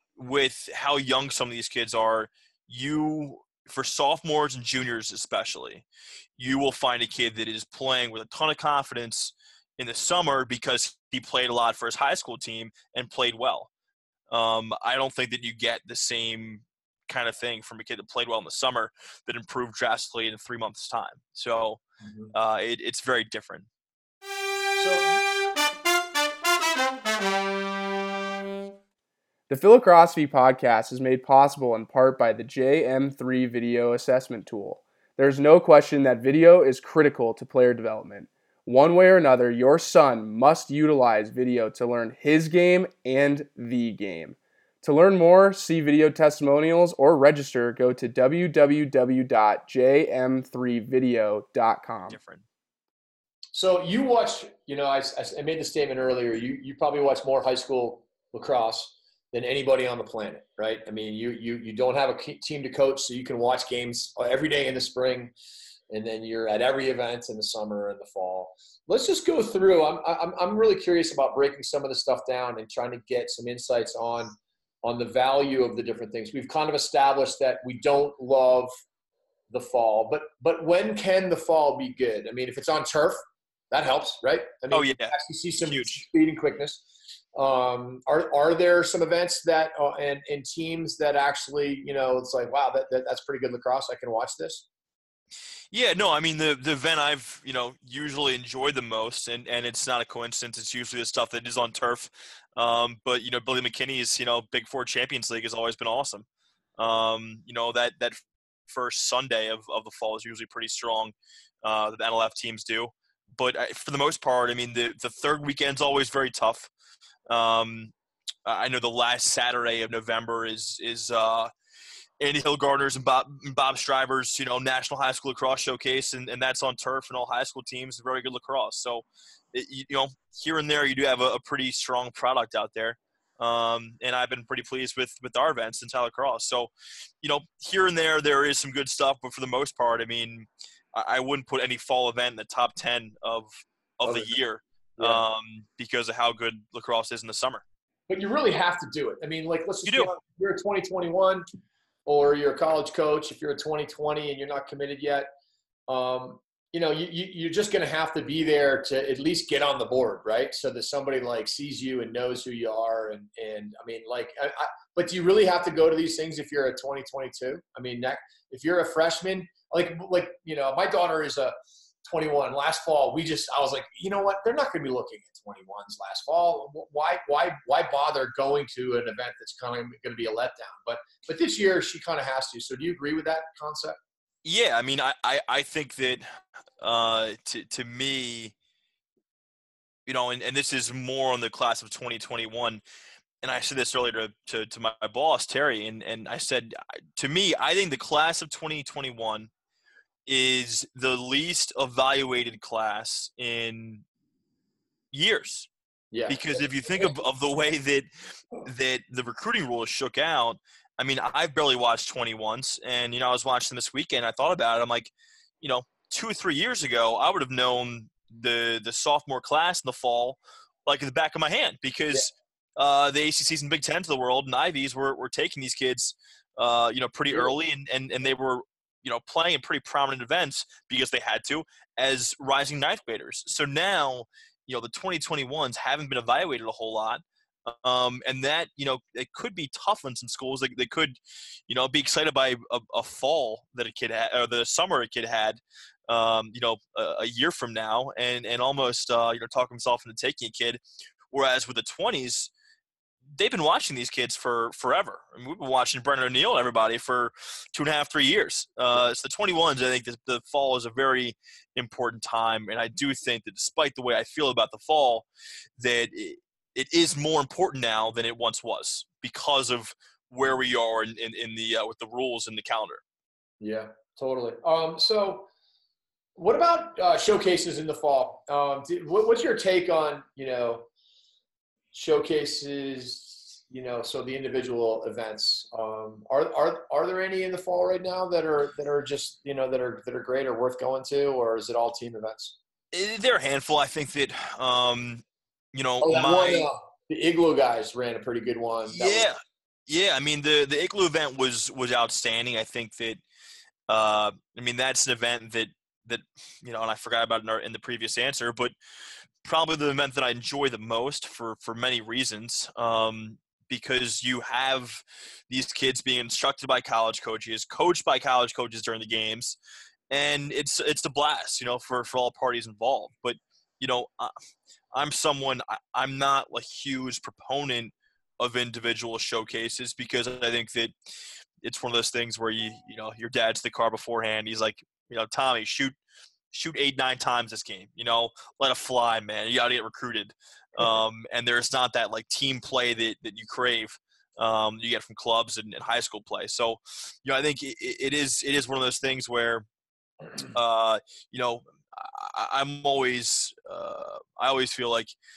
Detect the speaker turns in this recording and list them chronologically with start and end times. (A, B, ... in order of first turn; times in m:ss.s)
0:00.2-0:05.8 A
0:06.4-0:13.7 A
0:14.3-0:21.8 A
0:22.0-0:22.3 B
0:22.3-0:23.7 A
0:24.8-0:25.2 B
0:29.5-0:52.2 C
0:52.1-0:52.4 A
0:53.5-1:05.3 B
1:05.9-1:18.7 B
1:19.5-1:26.8 B
1:24.7-1:26.0 A
1:27.4-1:34.6 B
1:35.7-1:46.2 A
1:46.8-1:56.7 A
1:57.3-1:57.9 A
1:58.4-2:01.5 A
2:02.2-2:16.7 A
2:17.2-2:27.6 A
2:24.0-2:24.4 B
2:28.1-2:31.4 B
2:29.8-2:30.1 A
2:32.0-2:35.3 B
2:35.9-3:04.0 B
3:04.4-3:06.2 A
3:06.8-3:08.5 A
3:10.0-3:12.8 A
3:13.4-3:19.5 A
3:20.2-3:24.0 A
3:25.1-3:25.7 A
3:26.1-3:27.1 B
3:26.3-3:28.1 A
3:28.6-4:12.5 A
4:13.3-4:25.3 A
4:25.8-4:33.0 A
4:33.6-4:35.5 B
4:36.4-4:40.8 B
4:41.9-4:52.6 B
4:52.9-4:56.7 A
4:56.0-4:59.3 B
4:58.9-5:03.2 A
5:03.9-5:08.7 A
5:09.4-5:19.6 A
5:20.1-5:24.3 A
5:24.9-5:30.9 A
5:31.6-5:36.0 A
5:36.5-5:49.6 A
5:50.5-5:55.1 A